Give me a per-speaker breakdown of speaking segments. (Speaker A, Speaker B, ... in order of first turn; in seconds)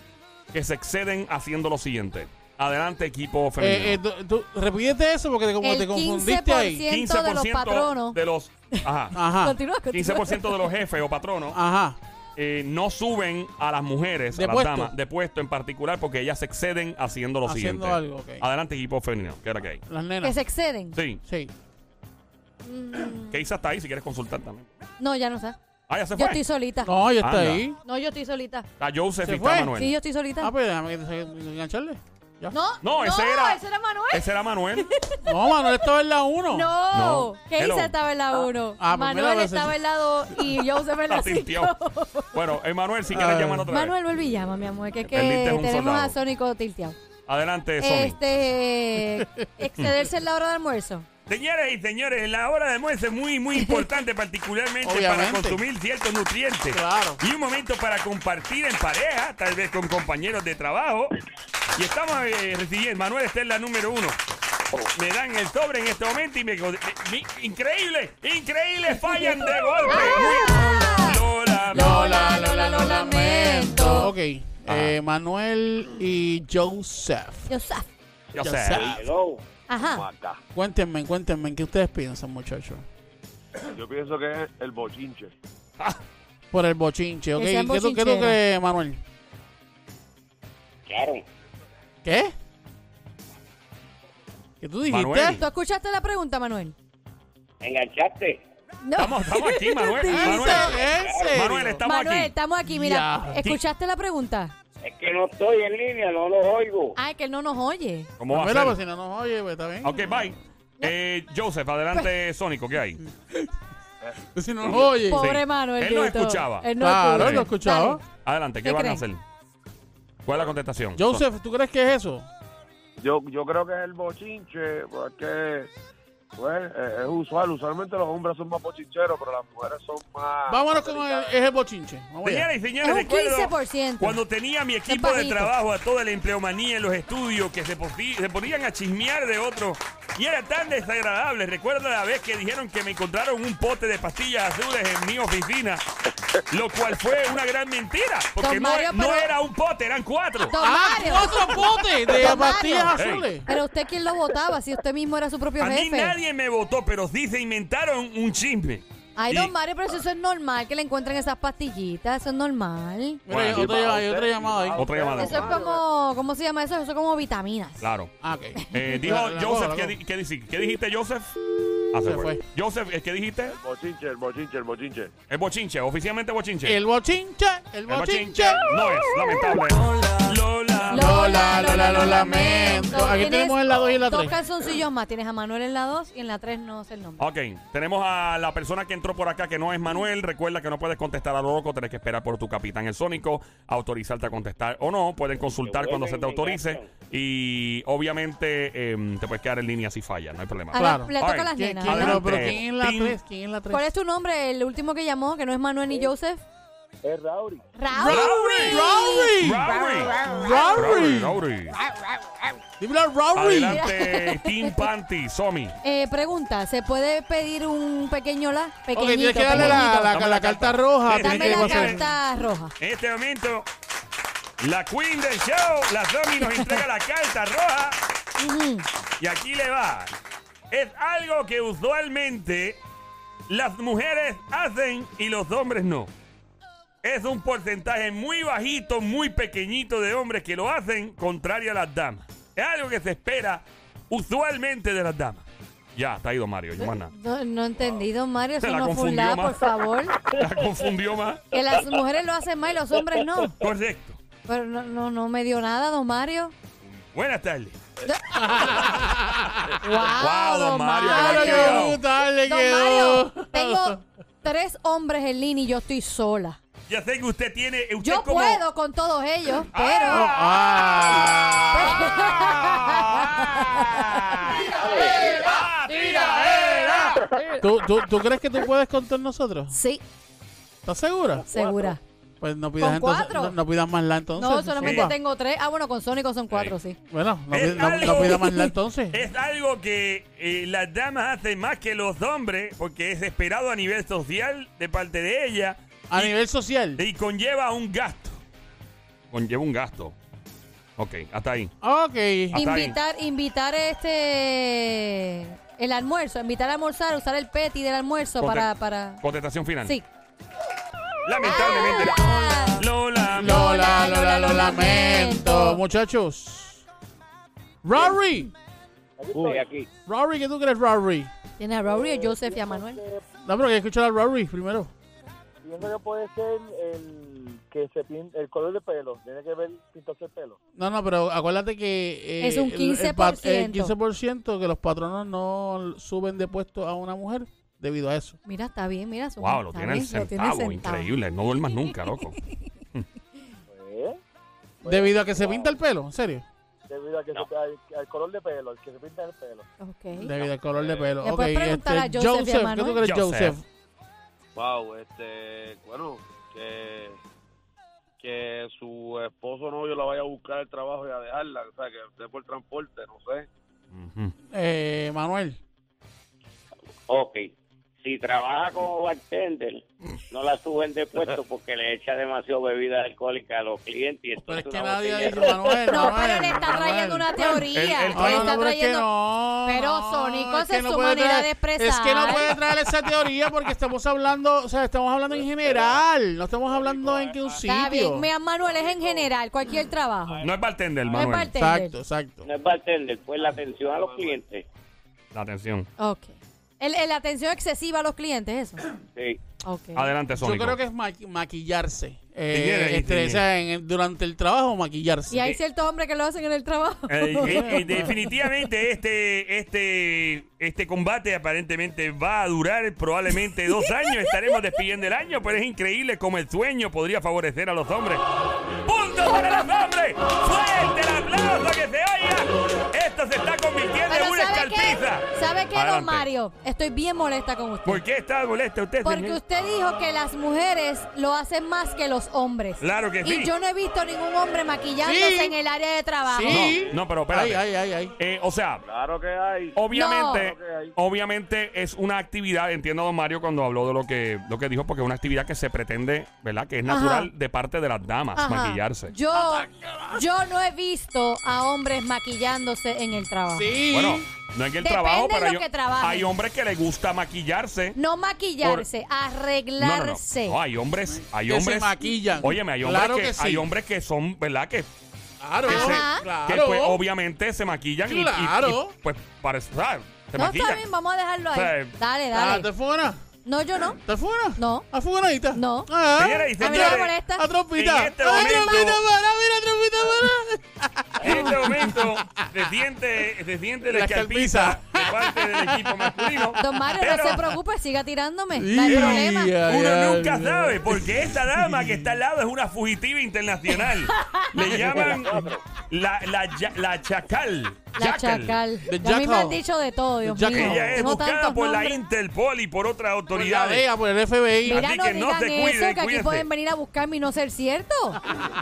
Speaker A: 0.5-4.0, 6.9-9.2, 9.9-11.6, 12.4-19.8, 20.9-21.2, 23.1-24.6, 25.9-26.4, 27.2-27.6, 28.8-29.9, 32.8-34.9, 36.9-37.9, 41.1-41.7, 42.3-43.9, 45.0-46.1, 47.3-48.2, 51.3-61.2, 61.7-64.2, 64.9-72.0, 74.7-75.0, 78.3-79.0, 94.9-95.4, 99.0-102.3, 108.2-108.8, 109.8-113.0, 115.2-117.5, 118.2-119.2, 120.2-121.2, 132.2-145.8, 146.5-150.5, 153.0-153.3, 155.6-159.5, 163.3-163.7, 164.8-165.6, 167.8-168.1, 168.7-171.3, 171.9-173.6, 175.3-176.8, 177.9-181.2, 187.2-203.2, 208.0-208.8, 209.4-211.8, 213.3-215.8, 219.5-222.1, 222.8-223.7, 224.6-228.0, 229.2-230.1, 230.7-232.8, 233.5-236.1, 237.0-245.4, 245.9-247.1, 248.6-251.4, 253.6-254.2, 256.9-257.8, 260.1-262.0, 266.9-268.6, 269.7-277.2, 284.8-285.1, 287.5-288.5, 289.1-296.3, 297.0-298.4, 299.3-300.1, 301.0-301.7, 302.5-303.0, 308.4-309.9, 311.2-313.6, 339.4-342.4, 353.0-353.5, 363.9-364.3, 377.4-378.6, 390.4-391.5, 395.3-395.9, 399.9-400.8, 402.5-403.4, 407.1-418.2, 418.8-426.2, 427.8-429.4, 432.8-433.5, 436.5-437.6, 438.2-438.8, 439.7-449.1, 453.9-458.0, 458.6-458.9, 459.8-464.9, 465.6-470.8, 471.5-471.9, 476.1-477.1, 477.7-479.0, 481.2-487.6, 488.9-498.6, 500.5-503.9, 504.6-506.5
Speaker B: 3.6-6.8, 9.1-9.6, 11.5-12.0, 14.3-14.9, 17.4-18.4, 19.9-20.4, 21.2-21.5, 26.8-27.8, 29.2-29.7, 30.4-32.5, 35.2-36.7, 38.8-39.8, 43.1-43.7, 49.0-49.5, 54.8-55.6, 56.7-57.2, 71.7-77.5, 78.4-79.0, 80.5-82.8, 86.5-89.0, 92.0-92.3, 94.6-95.4, 100.1-101.8, 102.6-103.4, 108.3-110.4, 113.0-113.5, 114.3-115.3, 116.8-118.0, 121.0-122.3, 130.5-132.5, 150.6-153.4, 163.2-164.8, 168.2-169.9, 172.0-172.4, 176.6-178.6, 180.9-184.3, 200.8-203.9, 207.9-211.4, 212.8-213.8, 218.9-222.0, 258.3-259.8, 261.0-264.0, 270.1-272.1, 274.8-279.8, 280.8-281.4, 282.4-285.1, 287.1-289.2, 296.1-297.0, 301.8-302.6, 313.3-316.8, 317.8-318.5, 320.1-321.3, 323.4-324.9, 330.8-338.4, 344.8-346.4, 350.2-353.6, 364.5-365.6, 374.5-388.3, 391.5-392.5, 400.4-405.5, 407.4-408.1, 435.0-435.5, 436.2-438.1, 449.3-450.2, 453.5-454.3, 461.1-463.7, 465.4-467.0, 468.0-468.9, 472.3-473.2, 474.0-482.7, 483.9-486.6, 488.6-492.1, 494.6-495.3, 498.8-499.6, 500.2-501.1, 503.3-504.8
Speaker C: 5.6-8.2, 8.7-10.7, 20.2-21.0, 22.6-23.4, 25.0-25.6, 26.1-26.9, 27.8-28.7, 29.8-30.5, 32.5-35.2, 36.5-42.3, 43.7-47.0, 47.8-51.1, 69.1-74.1, 77.5-77.9, 79.7-80.0, 87.3-88.4, 95.3-96.7, 98.8-100.7, 101.8-104.5, 107.0-108.1, 115.0-118.0, 118.6-119.0, 132.8-134.2, 134.9-135.5, 148.4-149.3, 150.5-156.2, 159.2-163.2, 165.2-167.8, 180.9-187.2, 200.7-202.2, 203.7-206.4, 207.7-210.7, 213.7-214.8, 215.8-220.1, 221.2-222.7, 226.4-226.8, 228.4-228.8, 246.8-250.2, 251.5-253.6, 254.5-256.5, 258.0-258.8, 259.8-266.6, 268.0-270.3, 271.7-274.2, 279.7-280.0, 281.5-282.0, 282.8-283.6, 284.4-287.0, 287.9-288.7, 302.5-309.2, 311.4-312.8, 313.4-315.8, 321.6-323.0, 332.4-333.9, 338.4-341.1, 349.8-350.3, 351.2-353.0, 375.9-379.1, 379.6-382.5, 387.6-390.5, 391.1-392.0, 396.0-398.8, 399.6-400.1, 405.3-408.3, 413.7-414.3, 424.1-428.0, 429.0-436.6, 439.9-440.4, 446.9-447.3, 448.4-453.7, 454.8-456.3, 457.9-460.6, 465.6-466.3, 470.3-472.7, 473.4-474.0, 474.6-474.9, 475.5-475.9, 476.6-477.4, 478.3-478.9, 486.6-489.5, 494.1-494.5, 497.9-502.0, 504.6-508.2
Speaker D: 78.8-79.4, 90.8-91.2, 97.6-98.4, 100.8-101.4, 104.8-107.0, 195.6-196.9, 319.3-319.9, 367.1-375.8, 392.4-394.6, 399.1-399.4, 494.7-495.6
Speaker E: 79.9-80.4, 83.7-85.3, 114.0-114.9, 120.3-120.5, 123.0-125.7, 126.3-131.4, 163.5-165.8, 173.4-175.1, 350.3-351.1, 354.5-357.2, 358.2-363.5, 385.3-386.0, 386.6-387.6, 388.6-389.3, 390.2-391.4, 393.4-394.4, 436.6-437.0, 438.8-439.8, 440.3-440.9
Speaker F: 207.0-207.7, 319.2-319.7, 321.8-323.2, 325.6-330.6, 343.7-344.2, 344.8-345.8, 346.9-349.7